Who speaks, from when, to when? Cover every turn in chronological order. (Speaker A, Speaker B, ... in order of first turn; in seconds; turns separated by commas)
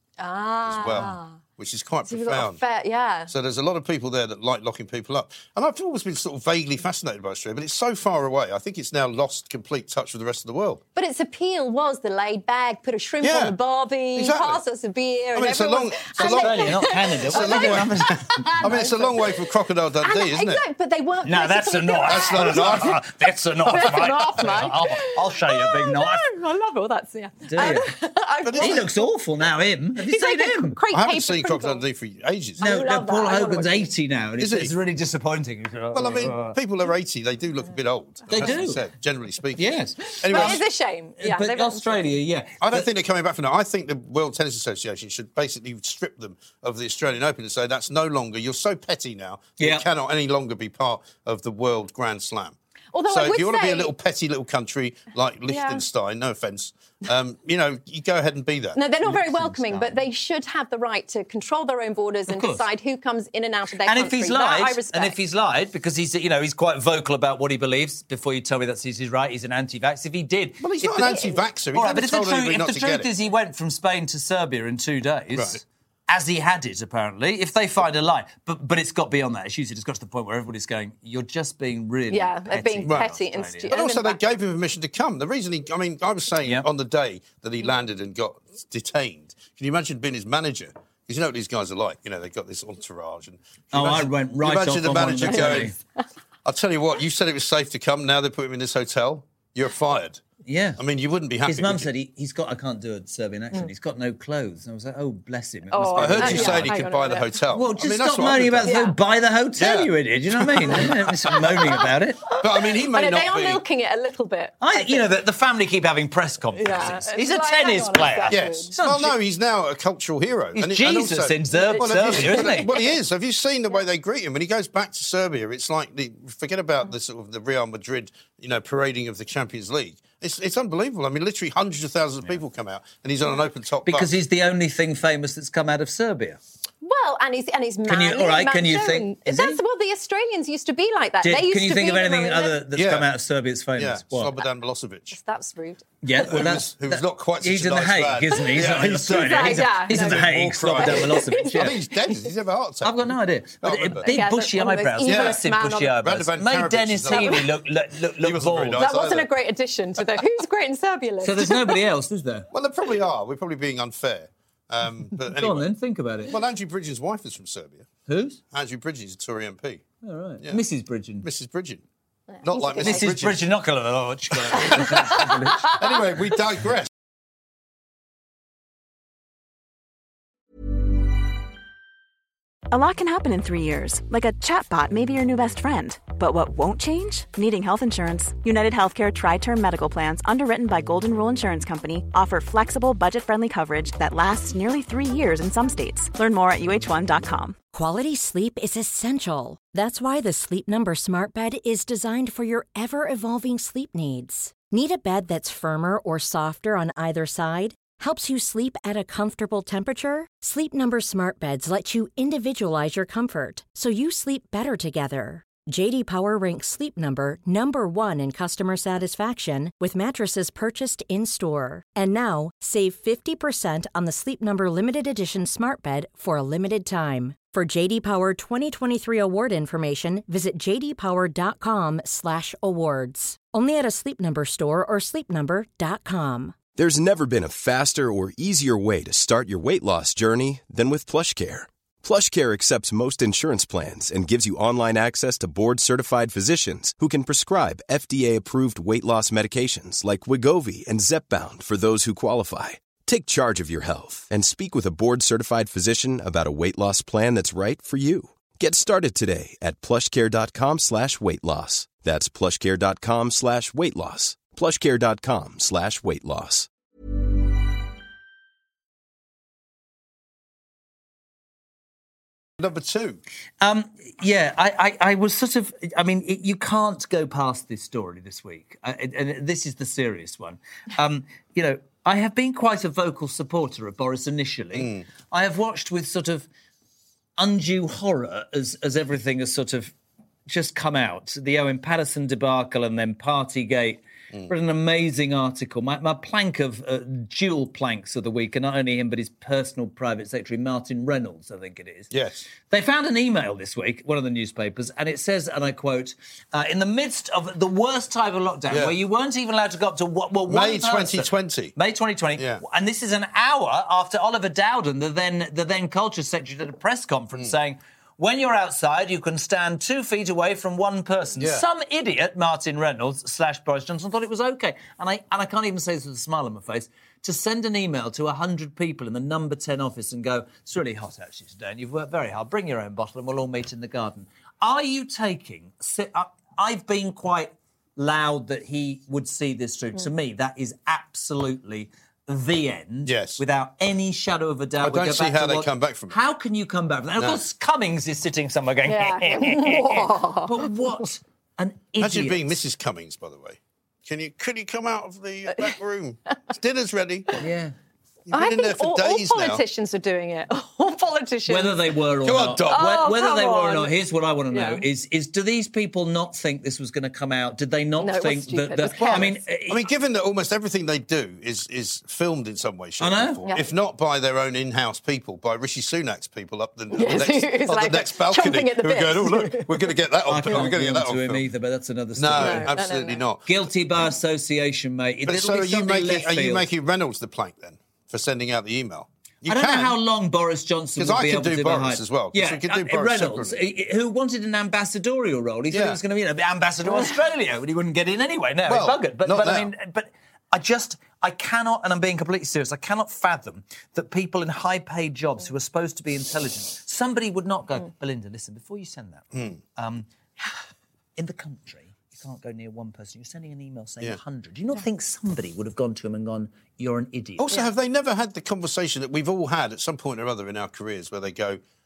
Speaker A: 0.2-1.4, Speaker B: 0.7-2.6, Speaker A: 2.1-3.3, Speaker B: 3.3-10.8, Speaker A: 10.9-19.5, Speaker B: 13.2-13.6, Speaker B: 14.2-14.6, Speaker B: 15.3-20.6, Speaker C: 16.2-18.8, Speaker A: 20.0-23.0, Speaker C: 21.2-26.3, Speaker B: 22.0-23.0, Speaker A: 23.6-28.9, Speaker B: 23.7-23.9, Speaker C: 27.5-27.9, Speaker B: 28.4-28.9, Speaker C: 28.6-30.8, Speaker A: 30.0-31.8, Speaker B: 30.9-32.6, Speaker A: 32.6-33.9, Speaker C: 32.6-36.6, Speaker B: 34.4-34.7, Speaker B: 35.9-40.6, Speaker C: 38.3-38.8, Speaker C: 39.6-40.6, Speaker A: 40.3-42.1, Speaker C: 41.2-42.9, Speaker B: 42.6-52.6, Speaker C: 49.6-49.9, Speaker A: 52.9-53.9, Speaker B: 53.1-58.8, Speaker A: 55.5-55.8, Speaker A: 58.8-65.2, Speaker C: 59.0-60.0, Speaker C: 62.3-62.6, Speaker C: 63.8-71.2, Speaker B: 70.6-73.1, Speaker A: 70.9-71.4, Speaker C: 71.7-83.7, Speaker B: 75.3-75.6, Speaker A: 82.1-84.2, Speaker B: 82.9-83.1, Speaker B: 83.7-95.7, Speaker C: 93.7-95.8, Speaker A: 95.3-95.7, Speaker B: 96.5-100.2, Speaker C: 100.5-100.8, Speaker B: 100.8-101.9, Speaker C: 101.5-106.7, Speaker A: 105.7-107.4, Speaker B: 106.0-108.7, Speaker C: 107.5-112.2, Speaker A: 108.6-109.0, Speaker B: 109.6-111.6, Speaker A: 111.5-111.9, Speaker B: 112.3-113.6, Speaker A: 112.4-115.1, Speaker C: 114.6-119.2, Speaker A: 116.6-118.7, Speaker B: 118.3-134.1, Speaker C: 120.6-122.7, Speaker A: 121.5-122.9, Speaker C: 133.9-136.4, Speaker A: 136.8-142.6, Speaker C: 137.9-139.6, Speaker C: 141.2-144.3, Speaker B: 142.7-143.1, Speaker B: 143.8-145.2, Speaker A: 145.1-146.3, Speaker C: 146.0-151.8, Speaker B: 146.2-154.1, Speaker A: 149.1-151.8, Speaker C: 152.8-158.8, Speaker A: 154.1-156.0, Speaker B: 155.0-157.5, Speaker A: 157.1-157.5, Speaker B: 158.2-159.3, Speaker A: 158.8-161.8, Speaker C: 161.2-162.5, Speaker B: 162.5-165.7, Speaker C: 165.3-166.4, Speaker B: 166.2-167.9, Speaker C: 168.1-168.4, Speaker B: 168.5-169.8, Speaker C: 170.0-171.3, Speaker B: 171.2-171.8, Speaker A: 172.3-173.1, Speaker B: 172.4-173.4, Speaker C: 172.8-175.7, Speaker B: 174.3-176.9, Speaker A: 174.6-175.3, Speaker D: 182.7-197.6, Speaker E: 197.7-236.6, Speaker F: 236.8-266.7, Speaker B: 272.6-273.2, Speaker C: 273.6-286.5, Speaker B: 284.8-285.1, Speaker C: 287.4-289.9, Speaker C: 290.5-302.1, Speaker B: 302.1-302.5, Speaker C: 302.7-352.6, Speaker B: 308.7-308.9, Speaker B: 310.5-311.8, Speaker B: 312.4-312.6, Speaker B: 321.4-321.6, Speaker B: 343.1-343.4, Speaker B: 344.8-346.2, Speaker B: 347.2-347.4, Speaker A: 348.9-350.7, Speaker B: 352.0-357.4, Speaker C: 357.4-357.7, Speaker B: 358.3-359.6, Speaker A: 358.3-361.8, Speaker C: 361.5-369.9, Speaker B: 362.2-362.9, Speaker A: 362.7-363.9, Speaker A: 364.5-364.8, Speaker A: 368.0-369.3, Speaker B: 369.0-381.4, Speaker C: 373.0-373.4, Speaker A: 376.9-379.8, Speaker C: 380.3-382.8, Speaker B: 382.1-383.6, Speaker A: 382.4-383.2, Speaker C: 383.5-386.7, Speaker B: 385.3-390.0, Speaker C: 389.5-410.1, Speaker B: 391.0-393.6, Speaker B: 395.7-396.0, Speaker B: 398.7-399.7, Speaker B: 409.3-409.6, Speaker C: 411.2-417.5, Speaker B: 417.4-421.6